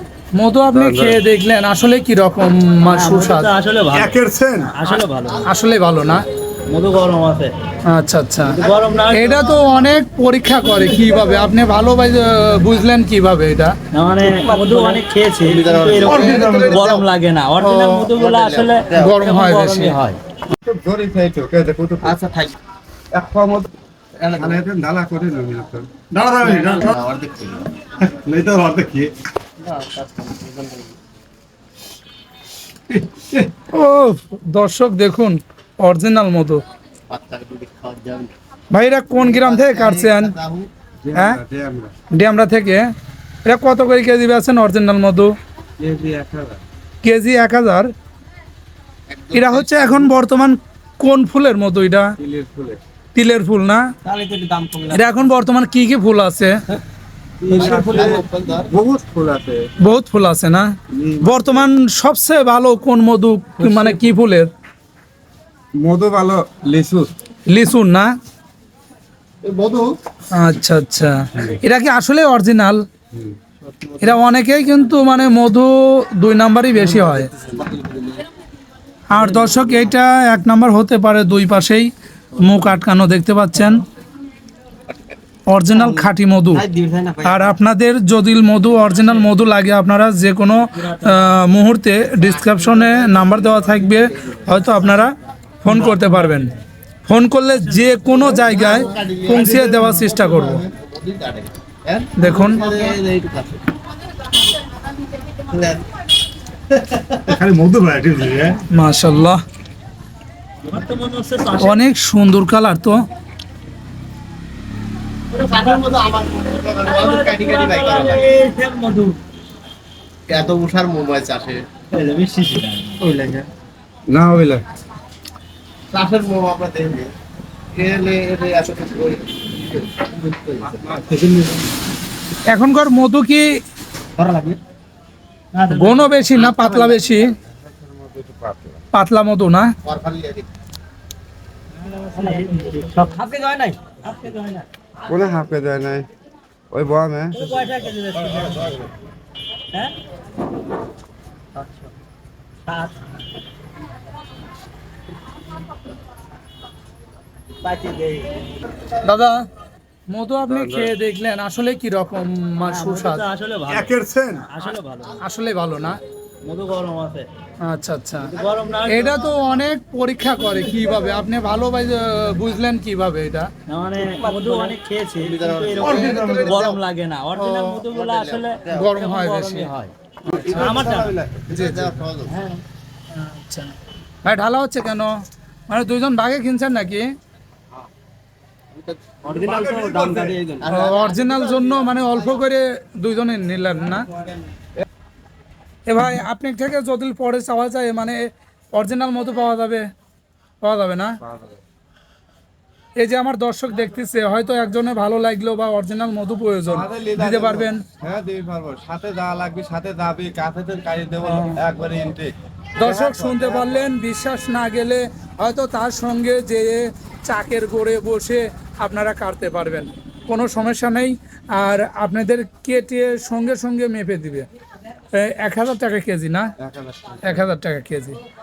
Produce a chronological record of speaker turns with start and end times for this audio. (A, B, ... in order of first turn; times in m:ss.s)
0:00.4-0:03.5 A
0:00.7-0:01.2 B
0:02.9-0:05.4 C
0:03.9-0:04.7 B
0:05.4-0:06.2 A
0:06.7-0:07.5 C
0:07.9-0:08.6 A
0:08.5-0:09.4 C
0:08.6-0:09.8 D
0:09.1-0:13.7 A
0:13.9-0:20.2 C
0:14.2-0:17.1 D
0:16.1-0:16.8 B
0:17.6-0:18.0 A
0:18.1-0:19.1 D
0:19.0-0:20.0 A
0:20.6-0:22.2 B
0:22.0-0:22.6 D
0:23.1-0:23.7 B
0:24.2-0:24.6 D
0:24.3-0:27.0 B
0:26.4-0:27.7 D
0:28.0-0:29.1 B
0:29.6-0:31.0 D
0:33.0-0:33.5 B
0:33.7-0:36.6 A
0:37.1-0:38.4 D
0:38.7-0:40.3 A
0:39.1-0:40.7 D
0:41.0-0:41.9 B
0:41.1-0:41.4 A
0:42.1-0:42.9 A
0:43.4-0:45.3 A
0:45.8-0:46.6 B
0:47.0-0:47.9 A
0:49.1-0:50.1 D
0:49.3-0:52.1 A
0:52.2-0:52.8 B
0:53.2-0:53.8 A
0:54.1-0:54.7 C
0:54.6-0:55.1 D
0:54.9-0:56.6 A
0:57.5-0:57.7 C
0:57.5-0:58.7 D
0:57.5-0:59.7 B
0:59.8-1:04.5 A
1:00.9-1:01.6 B
1:03.6-1:04.0 C
1:05.8-1:07.1 B
1:07.5-1:08.1 A
1:09.4-1:09.9 D
1:10.3-1:12.8 A
1:13.7-1:14.2 D
1:14.0-1:17.3 A
1:16.8-1:18.2 D
1:19.1-1:23.8 A
1:19.2-1:19.9 C
1:25.5-1:26.6 A
1:25.7-1:27.6 D
1:27.2-1:36.6 A
1:30.7-1:31.4 C
1:35.7-1:36.2 C
1:37.1-1:40.6 A
1:37.5-1:38.9 C
1:38.2-1:43.6 D
1:39.4-1:40.2 B
1:42.2-1:42.6 A
1:45.3-1:45.9 D
1:46.7-1:47.4 D
1:47.3-1:48.6 B
1:48.7-1:49.4 A
1:50.6-1:51.8 C
1:51.6-1:53.0 A
1:55.3-1:58.3 D
1:56.8-1:59.2 C
2:00.3-2:01.7 D
2:01.9-2:03.1 C
2:03.0-2:03.4 D
2:04.1-2:04.6 B
2:05.9-2:07.1 D
2:07.7-2:10.9 D
2:10.8-2:11.6 B
2:12.5-2:13.5 A
2:14.2-2:14.6 D
2:15.5-2:16.2 C
2:15.7-2:17.4 A
2:16.4-2:17.2 D
2:17.4-2:18.8 B
2:18.9-2:19.7 A
2:19.8-2:20.5 D
2:21.8-2:24.7 C
2:25.1-2:26.1 B
2:26.7-2:27.6 B
2:27.3-2:28.9 C
2:28.3-2:28.8 B
2:31.6-2:31.9 C
2:32.7-2:33.0 C
2:37.6-2:38.4 C
2:39.0-2:39.3 A
2:40.1-2:43.2 A
2:40.4-2:40.9 B
2:42.6-2:45.2 C
2:43.7-2:44.5 B
2:45.2-2:46.0 A
2:46.4-2:47.3 C
2:47.7-2:48.4 A
2:48.2-2:49.3 C
2:48.9-2:53.5 A
2:53.7-2:59.9 C
2:54.2-2:56.8 D
2:55.8-2:56.6 B
2:57.4-2:57.8 A
2:57.9-2:59.0 D
2:58.7-2:59.7 A
3:00.3-3:01.5 B
3:00.5-3:01.1 C
3:00.6-3:02.3 D
3:01.5-3:02.0 A
3:02.3-3:02.6 C
3:03.1-3:05.1 A
3:05.7-3:07.1 A
3:08.7-3:12.1 D
3:09.2-3:10.7 C
3:09.4-3:10.3 B
3:10.7-3:14.0 A
3:15.9-3:19.9 A
3:20.6-3:21.2 A
3:21.2-3:21.6 B
3:23.0-3:27.8 A
3:26.7-3:33.9 B
3:32.8-3:44.5 A
3:45.1-3:46.5 A
3:46.6-3:47.5 B
3:47.2-3:48.2 A